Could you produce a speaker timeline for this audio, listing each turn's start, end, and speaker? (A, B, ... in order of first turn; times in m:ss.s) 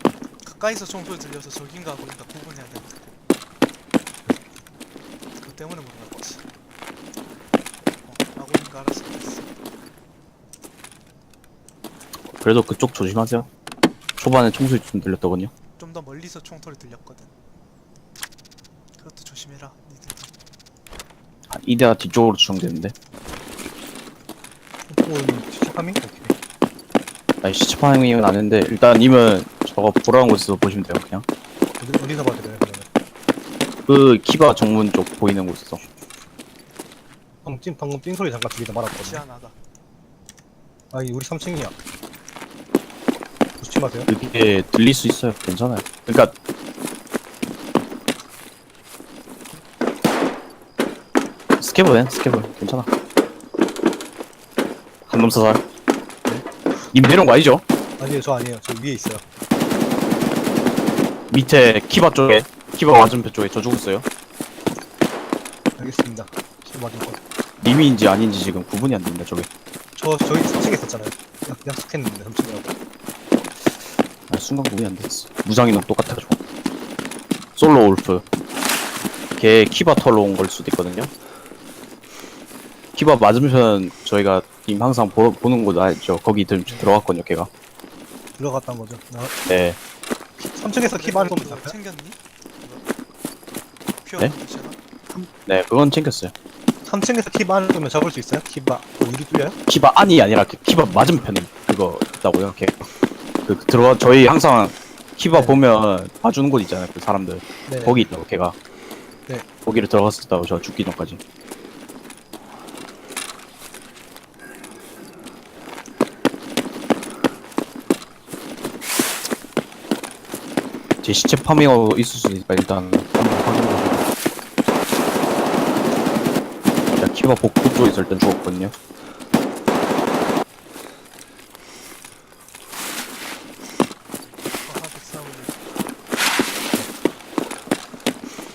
0:00.4-0:03.0 A
0:05.4-0:06.4 A
0:08.0-0:09.5 A
0:12.4-0:13.5 B
0:14.2-0:15.5 B
0:15.8-0:17.3 A
0:19.0-0:20.3 A
0:21.5-0:23.0 B
0:24.9-0:26.3 C
0:27.4-0:31.2 B
0:31.8-0:32.9 C
0:33.9-0:35.8 B
0:37.4-0:39.2 C
0:39.0-0:39.6 A
0:40.9-0:41.7 C
0:43.6-0:44.1 C
0:44.1-0:46.3 B
0:51.6-0:52.9 B
0:55.1-0:55.6 B
0:56.9-0:57.6 B
0:58.0-0:59.2 C
1:01.3-1:04.1 B
1:05.8-1:07.2 C
1:07.6-1:09.5 B
1:10.0-1:12.8 C
1:14.3-1:16.4 B
1:17.6-1:18.2 B
1:19.4-1:21.1 B
1:23.0-1:27.5 B
1:26.7-1:27.0 C
1:28.4-1:29.4 C
1:29.5-1:29.8 B
1:30.4-1:31.8 C
1:30.7-1:32.8 A
1:34.0-1:34.8 A
1:35.1-1:36.3 B
1:36.8-1:39.6 C
1:39.7-1:42.9 B
1:43.5-1:48.6 B
1:45.3-1:45.6 C
1:47.7-1:48.1 C
1:49.6-1:51.2 B
2:01.0-2:04.1 B
2:06.9-2:08.7 B
2:14.6-2:15.6 A